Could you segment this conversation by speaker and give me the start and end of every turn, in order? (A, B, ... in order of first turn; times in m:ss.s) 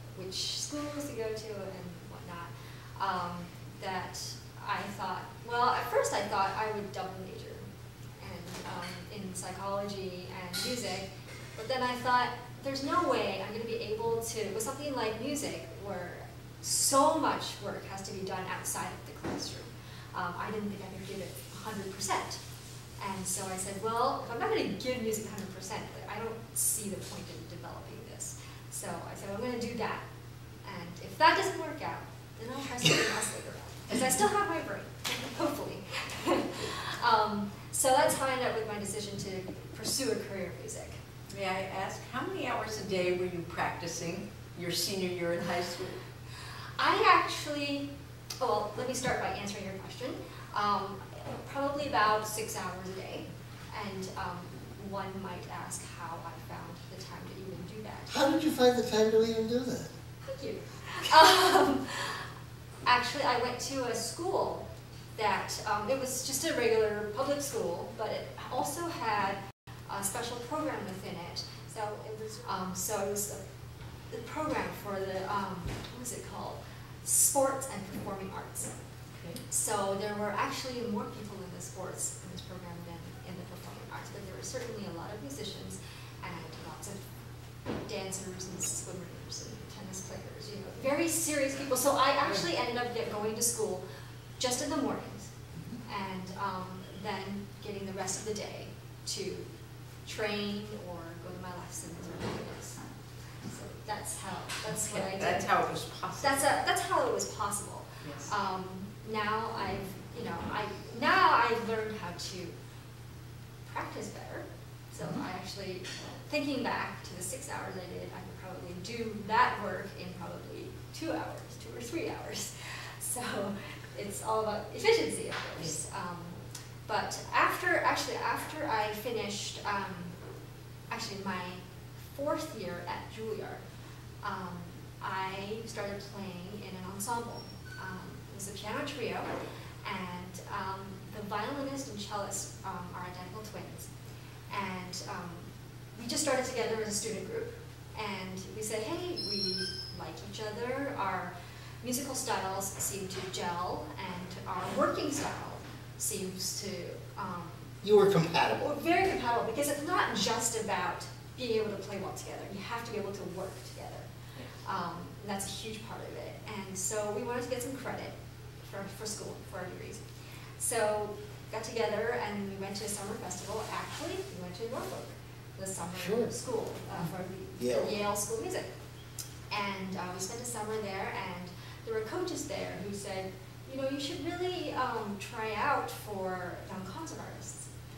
0:00.1-0:07.6 A
0:08.2-0:22.4 A
0:23.0-0:30.0 A
0:30.6-0:41.0 A
0:41.3-0:46.0 B
0:46.8-0:47.9 A
0:48.4-0:58.2 A
0:58.1-0:59.9 C
1:00.2-1:02.3 A
1:02.9-1:04.6 A
1:05.2-1:13.4 A
1:14.1-1:18.7 A
1:19.2-1:19.4 B
1:19.4-1:27.1 A
1:27.7-1:33.8 A
1:34.4-1:35.3 A
1:35.6-1:35.8 B
1:35.9-1:39.5 A
1:40.0-1:42.9 A
1:43.4-1:45.5 A
1:44.7-1:46.6 B
1:46.2-1:52.6 A
1:48.0-1:48.3 B
1:53.6-2:10.2 A
2:10.9-2:13.6 A
2:14.2-2:19.3 A
2:19.8-2:23.9 A
2:24.5-2:37.7 A
2:37.8-2:38.7 C
2:38.6-2:44.1 A
2:44.6-2:50.0 A
2:50.6-2:58.7 A
2:56.0-2:56.3 C
2:57.6-2:57.9 C
2:59.5-3:07.7 A